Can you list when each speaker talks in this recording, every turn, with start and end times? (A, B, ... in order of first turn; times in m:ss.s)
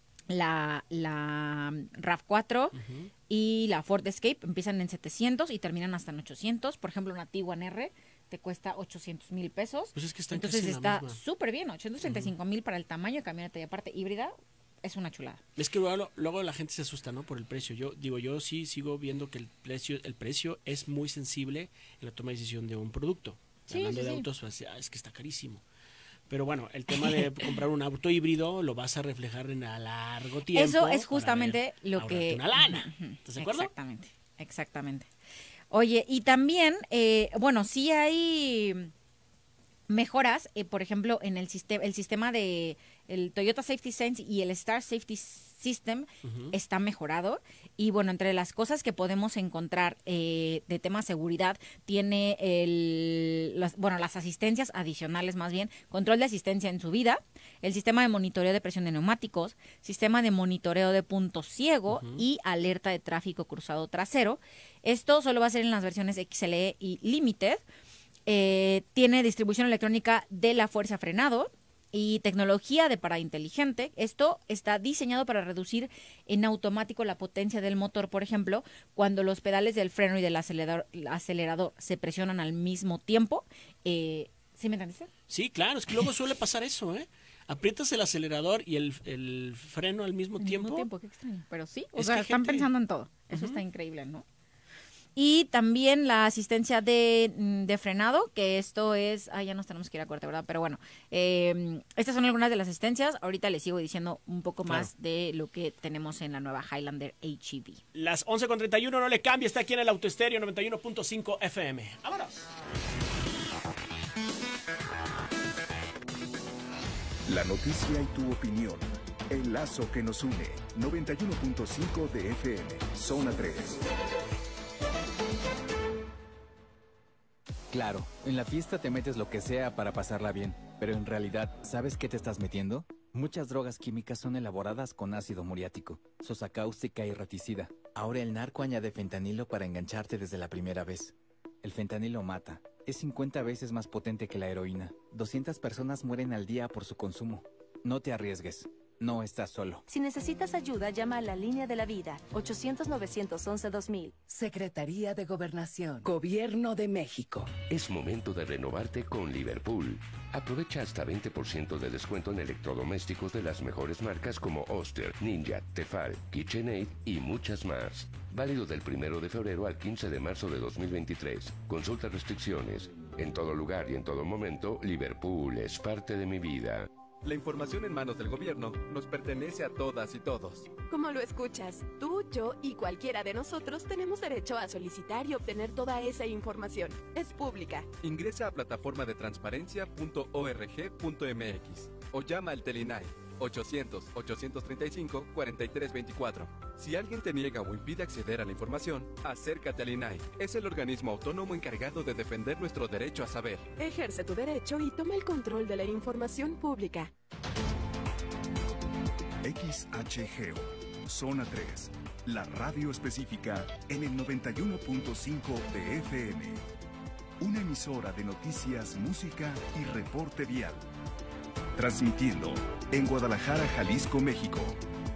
0:00.3-0:02.8 A
0:02.7-0:03.1 B
0:03.3-0:15.4 A
0:10.0-0:11.2 B
0:12.0-0:12.3 B
0:15.6-0:25.6 B
0:23.7-0:24.3 A
0:26.3-0:33.7 B
0:26.9-0:27.6 A
0:30.5-0:35.1 A
0:35.7-0:38.9 A
0:39.9-1:07.6 A
0:46.2-0:46.6 B
1:01.9-1:02.2 B
1:08.3-1:25.1 A
1:25.3-1:30.9 B
1:30.4-1:34.2 A
1:32.0-1:32.7 B
1:33.3-1:33.6 B
1:35.2-1:47.8 A
1:47.9-1:52.5 B
1:57.3-2:03.8 C
2:07.7-2:29.8 D
2:29.9-2:34.2 E
2:34.3-2:37.6 F
2:37.7-2:56.9 G
2:57.2-3:00.7 H
3:00.9-3:07.9 I
3:08.0-3:23.7 H
3:23.8-3:27.1 I
3:29.4-3:36.6 C
3:37.4-3:40.8 C
3:41.8-3:44.8 C